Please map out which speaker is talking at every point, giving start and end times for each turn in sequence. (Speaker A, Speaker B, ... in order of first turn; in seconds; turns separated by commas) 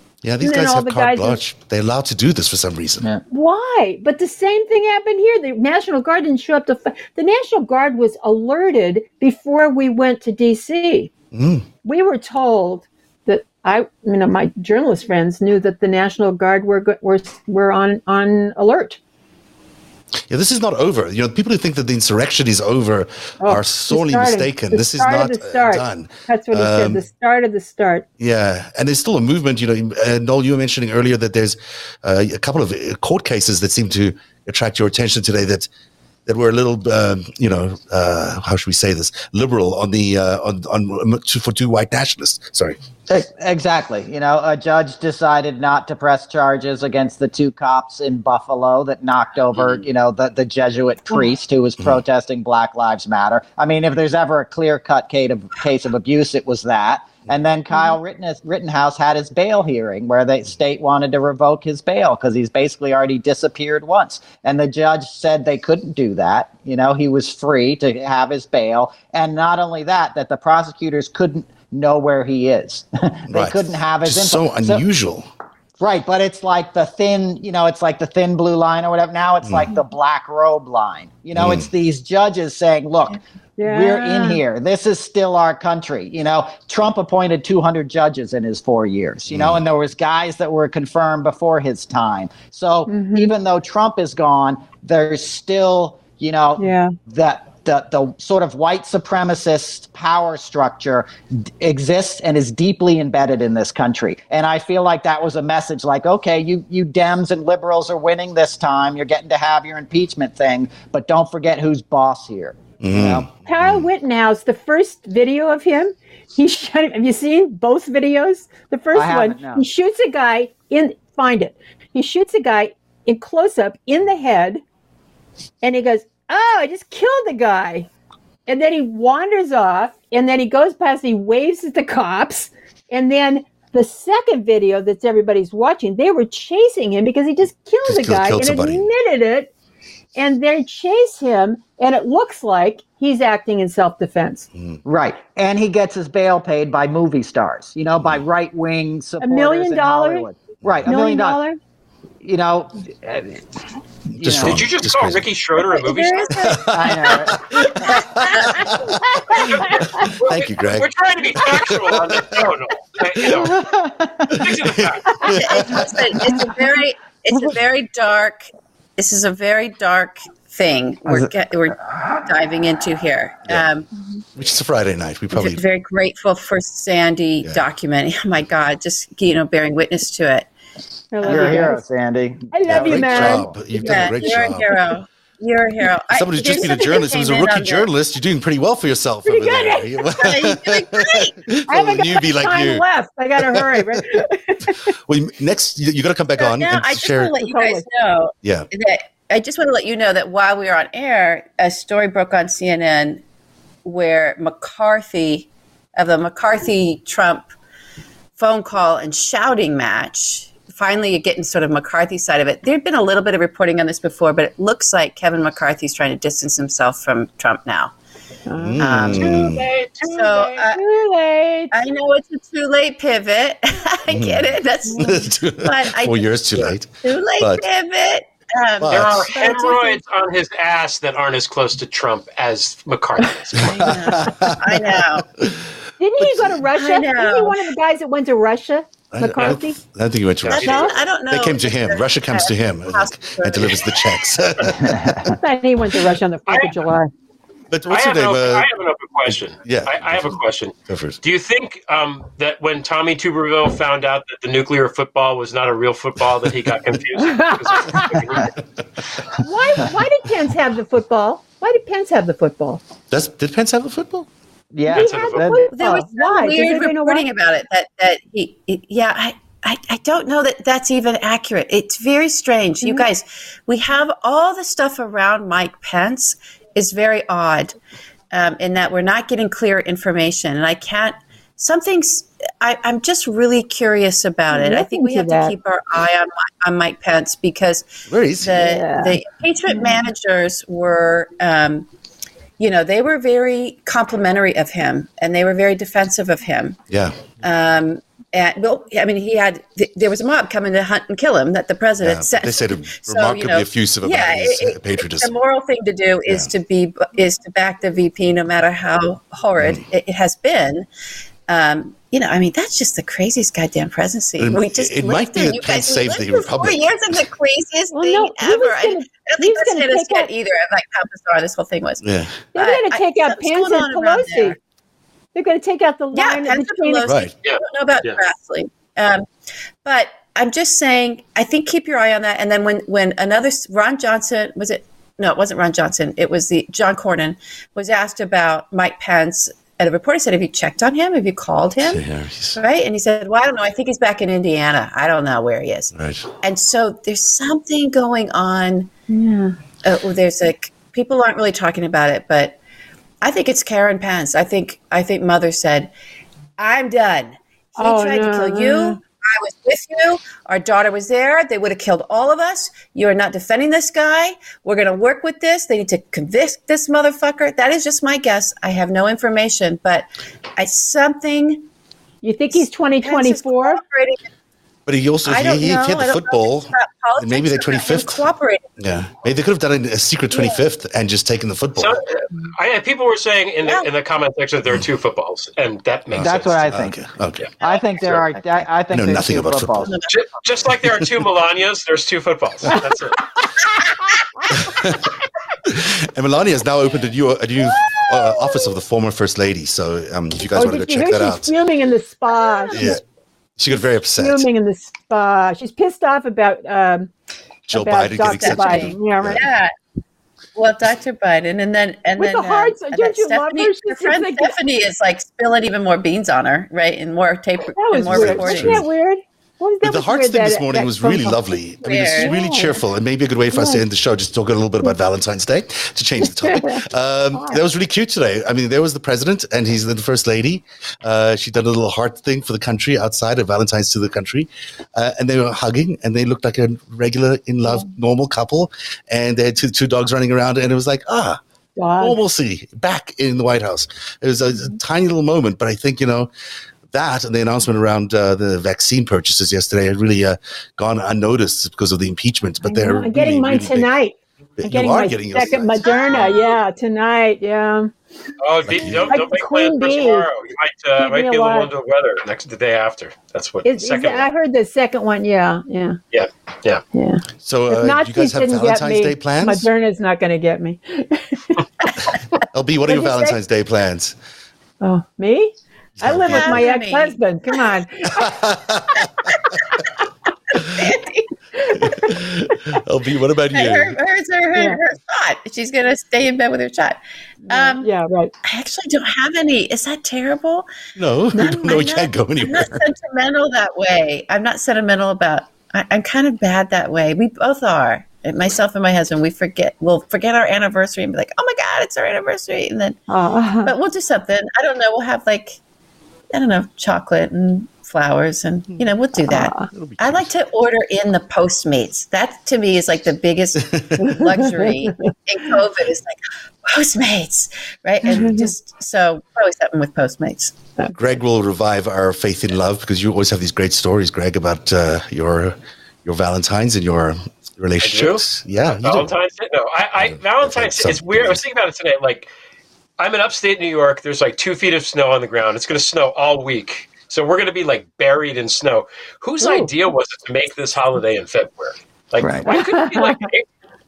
Speaker A: 0.2-3.1, Speaker B: 0.4-1.4, Speaker B: 3.3-11.1, Speaker A: 11.3-11.7, Speaker B: 11.8-19.0, Speaker A: 20.3-27.0, Speaker B: 23.4-28.0, Speaker A: 28.2-35.7, Speaker A: 36.2-42.8, Speaker C: 43.1-74.8, Speaker A: 73.3-75.3, Speaker C: 75.8-113.3, Speaker A: 79.4-79.7, Speaker A: 81.3-81.7, Speaker B: 83.6-84.4, Speaker A: 89.3-89.6, Speaker B: 92.9-93.3, Speaker B: 96.6-96.9, Speaker A: 112.8-113.9, Speaker B: 113.5-124.6, Speaker C: 118.9-119.6, Speaker B: 125.6-127.9, Speaker B: 128.5-139.5, Speaker A: 137.8-138.8, Speaker B: 140.1-144.5, Speaker A: 144.6-144.8, Speaker C: 144.8-151.4, Speaker B: 149.2-150.3, Speaker B: 150.9-151.6, Speaker C: 152.2-153.4, Speaker C: 154.1-154.6, Speaker A: 154.2-155.3, Speaker D: 154.4-156.6, Speaker E: 155.7-157.1, Speaker A: 156.4-160.9, Speaker C: 156.7-157.9, Speaker E: 157.9-158.6, Speaker B: 158.8-160.0, Speaker D: 159.3-163.6, Speaker A: 161.4-162.5, Speaker C: 163.3-164.4, Speaker A: 164.3-166.0, Speaker D: 164.3-165.3, Speaker E: 165.2-168.4, Speaker E: 169.0-173.9, Speaker A: 174.3-175.6, Speaker E: 175.3-180.5, Speaker B: 181.1-181.8, Speaker E: 181.2-181.7, Speaker C: 181.2-183.6, Speaker B: 182.5-184.6, Speaker A: 182.6-184.8, Speaker E: 183.7-187.9, Speaker A: 186.1-192.8, Speaker B: 186.4-186.9, Speaker B: 189.2-190.1, Speaker E: 190.2-191.3, Speaker B: 191.7-194.9, Speaker A: 193.4-194.0, Speaker A: 195.1-197.3, Speaker E: 196.4-203.2, Speaker B: 197.4-197.8, Speaker E: 203.8-207.5, Speaker E: 208.4-217.9, Speaker B: 218.5-221.7, Speaker A: 218.6-219.7, Speaker E: 218.8-220.8, Speaker E: 221.7-230.0, Speaker A: 224.1-224.5, Speaker B: 224.9-225.2, Speaker A: 225.0-227.6, Speaker A: 228.8-229.4, Speaker D: 228.9-234.0, Speaker A: 233.6-234.8, Speaker E: 233.8-235.3, Speaker A: 235.4-235.7, Speaker B: 236.0-239.8, Speaker A: 236.2-236.6, Speaker E: 236.7-237.6, Speaker A: 239.1-245.3, Speaker D: 240.4-240.9, Speaker E: 240.4-244.2, Speaker B: 240.6-240.9, Speaker C: 244.9-245.2, Speaker B: 245.2-247.1, Speaker A: 247.7-248.7, Speaker D: 247.9-258.5, Speaker A: 249.3-251.2, Speaker B: 257.3-258.2, Speaker A: 258.0-258.4, Speaker B: 259.4-262.8, Speaker A: 263.1-264.3, Speaker C: 264.7-265.6, Speaker D: 264.9-265.5, Speaker B: 264.9-267.2, Speaker E: 265.7-277.8, Speaker E: 278.3-291.9, Speaker B: 284.5-285.5, Speaker A: 288.1-288.5, Speaker B: 288.5-289.2, Speaker E: 292.6-296.8, Speaker A: 296.9-297.3, Speaker E: 297.4-310.9, Speaker A: 302.0-305.3, Speaker A: 309.6-309.8, Speaker E: 311.5-322.0, Speaker A: 314.4-316.9, Speaker B: 317.9-320.3, Speaker A: 322.0-322.5, Speaker B: 322.5-324.6, Speaker E: 322.5-324.6, Speaker B: 325.3-327.1, Speaker E: 326.1-329.3, Speaker A: 327.0-327.3, Speaker D: 327.4-328.2, Speaker E: 329.8-348.9, Speaker A: 341.8-342.6, Speaker A: 345.9-346.3, Speaker B: 349.1-349.6, Speaker E: 349.8-352.6, Speaker E: 353.2-355.9, Speaker E: 356.6-371.7, Speaker B: 357.8-359.0, Speaker B: 372.2-373.8, Speaker E: 372.5-374.2, Speaker A: 374.9-378.3, Speaker E: 375.2-378.7, Speaker A: 378.8-382.0, Speaker D: 381.8-386.8, Speaker A: 386.1-387.5, Speaker C: 386.2-387.0, Speaker C: 387.6-389.9, Speaker A: 388.9-389.9, Speaker E: 389.8-390.2, Speaker D: 390.1-393.2, Speaker A: 390.8-391.1, Speaker B: 394.3-395.1, Speaker A: 394.5-395.1, Speaker A: 395.6-401.5, Speaker B: 397.8-398.4, Speaker B: 400.5-403.0, Speaker A: 402.7-403.0, Speaker A: 403.6-404.4, Speaker B: 404.2-407.1, Speaker A: 407.7-409.4, Speaker B: 407.7-409.4, Speaker E: 408.3-409.7, Speaker E: 410.5-418.9, Speaker B: 412.2-414.5, Speaker B: 417.8-421.4, Speaker A: 418.0-418.9, Speaker A: 419.8-441.4, Speaker E: 421.8-422.3, Speaker B: 422.1-422.8, Speaker B: 423.5-423.8, Speaker B: 426.3-427.6, Speaker B: 441.8-442.2, Speaker A: 442.0-446.3, Speaker A: 446.9-453.9, Speaker B: 452.6-457.9, Speaker A: 454.6-455.9, Speaker E: 456.0-456.4, Speaker D: 458.4-464.3, Speaker A: 458.6-459.2, Speaker B: 459.0-460.3, Speaker B: 461.0-461.7, Speaker B: 463.6-466.0, Speaker D: 466.1-466.8, Speaker B: 466.9-472.1, Speaker A: 467.4-469.7, Speaker A: 472.5-474.1, Speaker B: 472.8-473.4, Speaker B: 474.8-478.4, Speaker A: 476.0-476.6, Speaker E: 476.3-477.2, Speaker A: 478.1-479.7, Speaker E: 479.4-479.8, Speaker A: 480.6-480.9, Speaker E: 480.7-481.3, Speaker B: 481.6-482.8, Speaker A: 481.7-484.0, Speaker E: 483.5-487.9, Speaker B: 487.5-488.3, Speaker E: 488.4-490.7, Speaker A: 490.9-492.8, Speaker B: 491.3-491.6, Speaker E: 491.3-503.0, Speaker B: 503.1-503.7, Speaker E: 503.6-505.6, Speaker E: 506.3-520.5, Speaker B: 509.3-509.7, Speaker A: 509.6-510.3, Speaker A: 513.6-514.2, Speaker B: 514.0-515.1, Speaker B: 518.0-518.5, Speaker B: 520.8-521.1, Speaker A: 520.9-529.1, Speaker D: 527.8-532.3, Speaker A: 530.0-531.4, Speaker D: 533.0-543.4, Speaker B: 539.4-539.7, Speaker C: 542.2-542.5, Speaker B: 542.5-543.2